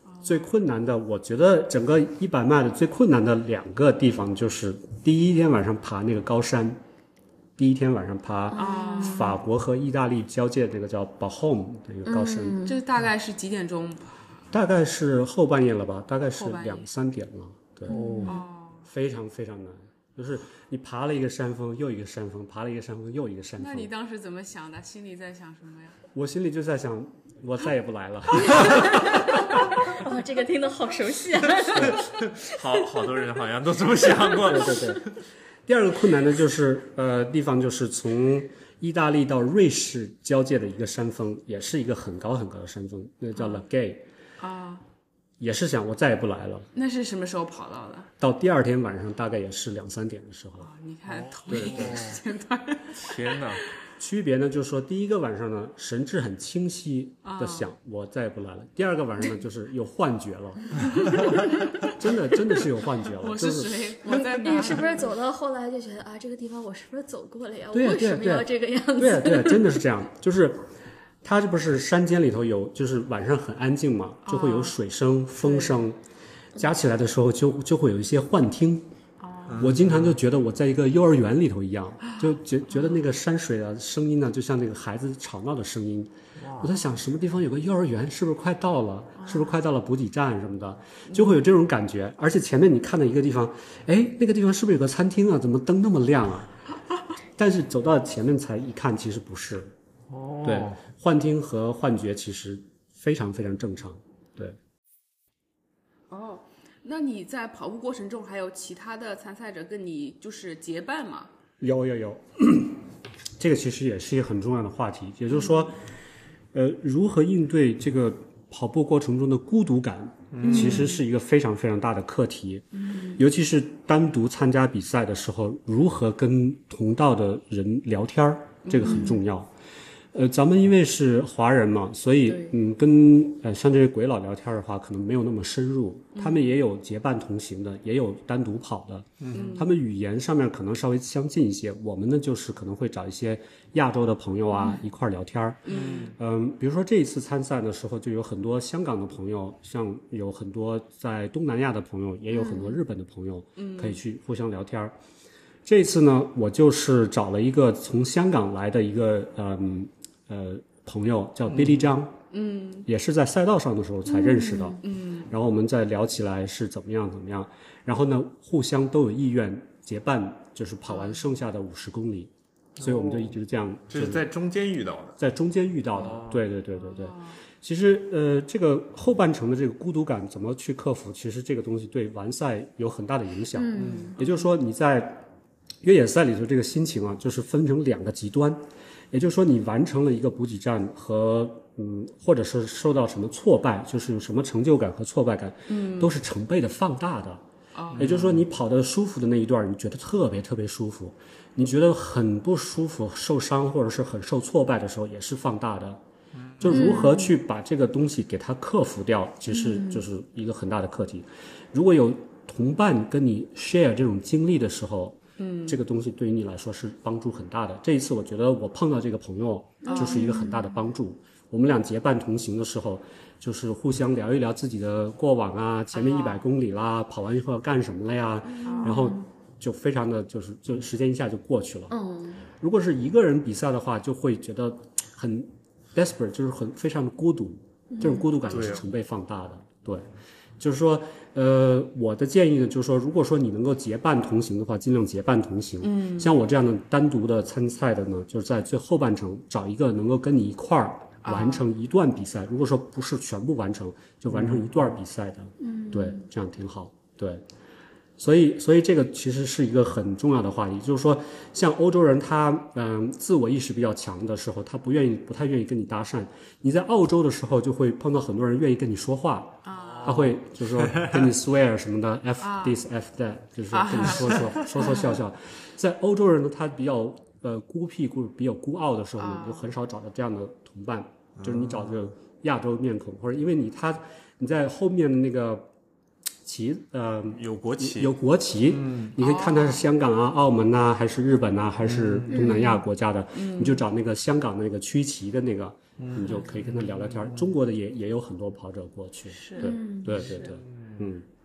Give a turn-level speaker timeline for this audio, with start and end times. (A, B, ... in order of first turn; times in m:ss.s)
0:00.2-0:06.8 A
0:07.6-0:12.6 A
0:08.5-0:09.4 B
0:08.5-0:09.4 C
0:12.0-0:12.8 B
0:12.6-0:14.2 C
0:14.5-0:18.2 A
0:16.3-0:16.9 C
0:17.9-0:18.3 D
0:17.9-0:18.4 B
0:18.2-0:18.8 C
0:18.8-0:23.9 A
0:23.6-0:26.0 C
0:26.1-0:29.2 A
0:28.6-0:32.1 B
0:31.7-0:34.9 D
0:34.4-0:35.1 A
0:35.6-0:44.1 A
0:43.4-0:43.6 C
0:44.4-0:44.8 C
0:45.4-0:46.7 A
0:46.7-0:48.1 C
0:48.2-0:50.7 A
0:50.6-0:53.6 C
0:51.1-0:52.2 D
0:51.5-0:52.1 A
0:52.9-0:53.6 D
0:54.0-1:04.1 A
0:57.2-0:57.7 C
1:03.2-1:05.1 C
1:04.0-1:09.8 B
1:07.7-1:10.6 A
1:11.2-1:16.0 A
1:14.2-1:14.8 C
1:15.4-1:15.8 C
1:16.5-1:18.9 A
1:19.2-1:19.6 C
1:19.5-1:20.2 D
1:19.6-1:36.6 A
1:26.4-1:26.8 D
1:29.2-1:29.4 C
1:37.4-1:39.7 A
1:40.1-1:40.8 D
1:40.4-1:44.6 A
1:46.1-1:51.3 C
1:51.6-1:52.8 A
1:53.4-1:55.8 A
1:56.5-2:09.5 A
2:00.3-2:00.7 D
2:00.4-2:01.0 C
2:08.6-2:09.2 C
2:08.8-2:09.2 B
2:10.1-2:34.9 A
2:12.3-2:12.5 C
2:16.1-2:16.5 C
2:19.2-2:19.6 D
2:19.3-2:19.7 C
2:25.7-2:26.1 C
2:25.7-2:26.1 D
2:32.3-2:32.8 B
2:33.6-2:34.0 C
2:35.6-2:42.2 A
2:41.5-2:41.9 D
2:42.3-2:42.9 C
2:42.8-2:54.2 A
2:44.1-2:44.8 B
2:44.8-2:45.3 C
2:52.8-2:53.3 D
2:53.9-2:55.2 D
2:55.2-3:05.2 A
2:55.9-2:56.4 D
2:56.9-2:57.3 C
3:03.5-3:04.2 B
3:03.8-3:04.1 D
3:05.8-3:17.4 A
3:15.7-3:16.1 C
3:17.7-3:18.1 C
3:17.9-3:18.4 D
3:18.0-3:26.0 A
3:26.6-3:52.0 A
3:26.7-3:27.3 B
3:26.7-3:27.2 C
3:35.4-3:35.8 C
3:39.8-3:40.7 B
3:39.8-3:40.3 C
3:45.9-3:46.4 C
3:48.5-3:49.2 B
3:48.6-3:49.1 C
3:51.9-3:52.4 B
3:52.5-4:00.0 A
3:57.9-3:58.3 B
3:58.4-3:58.8 D
4:00.6-4:17.4 A
4:05.8-4:06.3 C
4:11.2-4:11.6 C
4:14.3-4:14.7 D
4:15.6-4:16.2 B
4:18.2-4:45.7 A
4:29.6-4:30.2 C
4:29.8-4:31.3 D
4:32.4-4:32.8 C
4:33.7-4:35.1 C
4:39.2-4:39.6 C
4:41.4-4:42.0 D
4:46.4-5:01.3 A
4:47.3-4:48.1 D
4:48.7-4:49.1 D
4:49.2-4:49.8 C
4:51.8-4:52.5 D
4:52.3-4:52.8 B
4:53.3-4:53.8 C
4:56.0-4:57.5 D
4:59.3-4:59.8 C
4:59.6-5:00.4 B
5:00.1-5:01.0 D